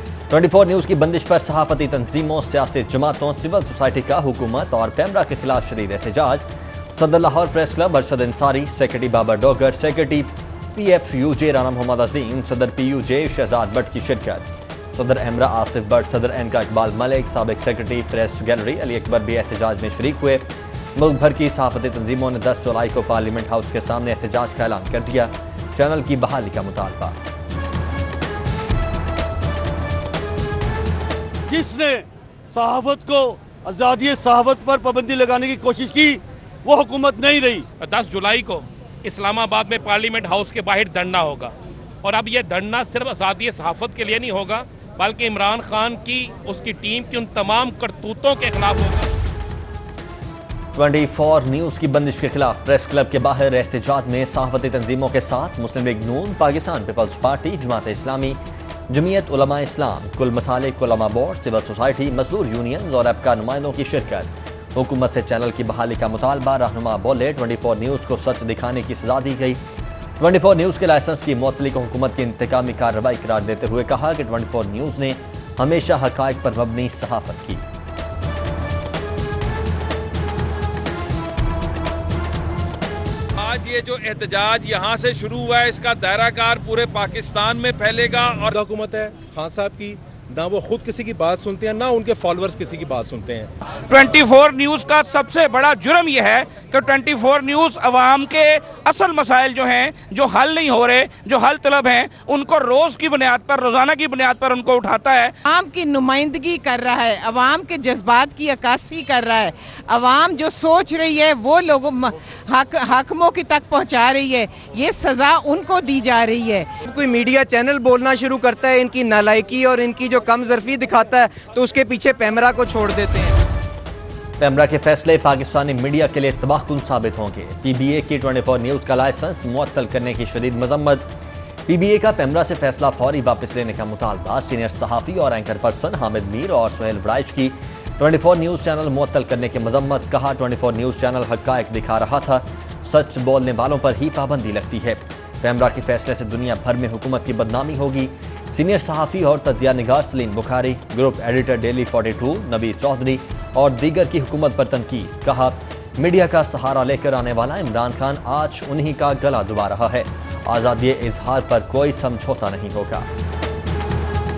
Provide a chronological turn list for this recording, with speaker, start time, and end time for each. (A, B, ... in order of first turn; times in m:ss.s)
0:00.3-0:27.2 A
0:31.5-0:37.6 B
0:37.8-0:49.1 C
0:50.8-1:09.6 A
1:10.2-1:17.6 A
1:23.4-1:28.6 D
1:28.6-1:33.5 E
1:33.9-1:45.3 F
1:45.4-1:56.7 G
1:56.9-2:03.4 H
2:04.4-2:11.1 A
2:11.7-2:43.1 A